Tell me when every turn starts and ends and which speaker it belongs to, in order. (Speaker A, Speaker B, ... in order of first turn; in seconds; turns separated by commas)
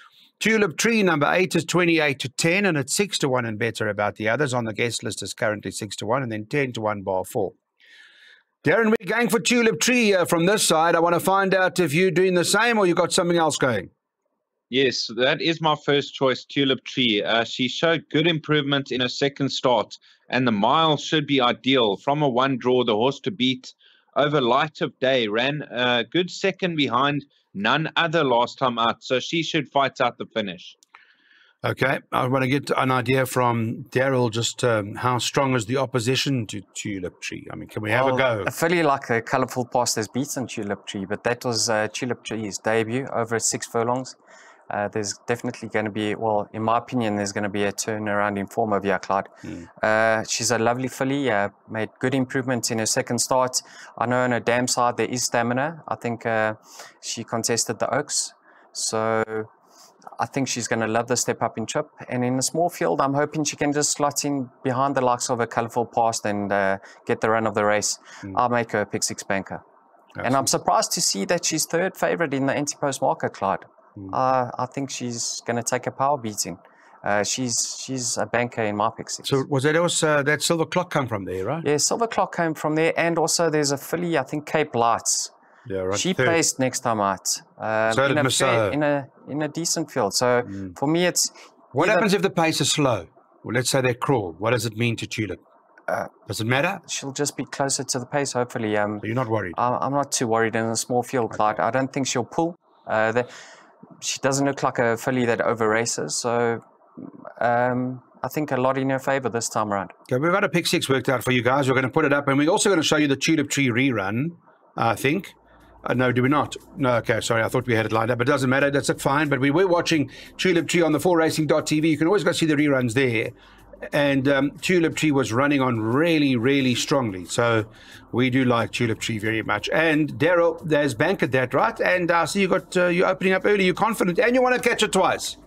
Speaker A: 0.4-7.5, Speaker A: 8.6-13.9, Speaker B: 14.7-30.7, Speaker A: 31.6-38.5, Speaker C: 37.9-44.1, Speaker C: 44.7-59.5, Speaker C: 60.1-69.6, Speaker A: 70.2-70.4, Speaker C: 70.2-79.4, Speaker A: 79.2-81.6, Speaker C: 81.6-85.3, Speaker A: 85.7-86.4, Speaker C: 85.9-92.1, Speaker A: 87.9-88.8, Speaker A: 91.7-95.4, Speaker A: 96.3-96.8, Speaker C: 96.8-103.3, Speaker A: 99.0-99.6, Speaker C: 104.0-109.9, Speaker A: 110.1-123.3, Speaker A: 123.9-135.4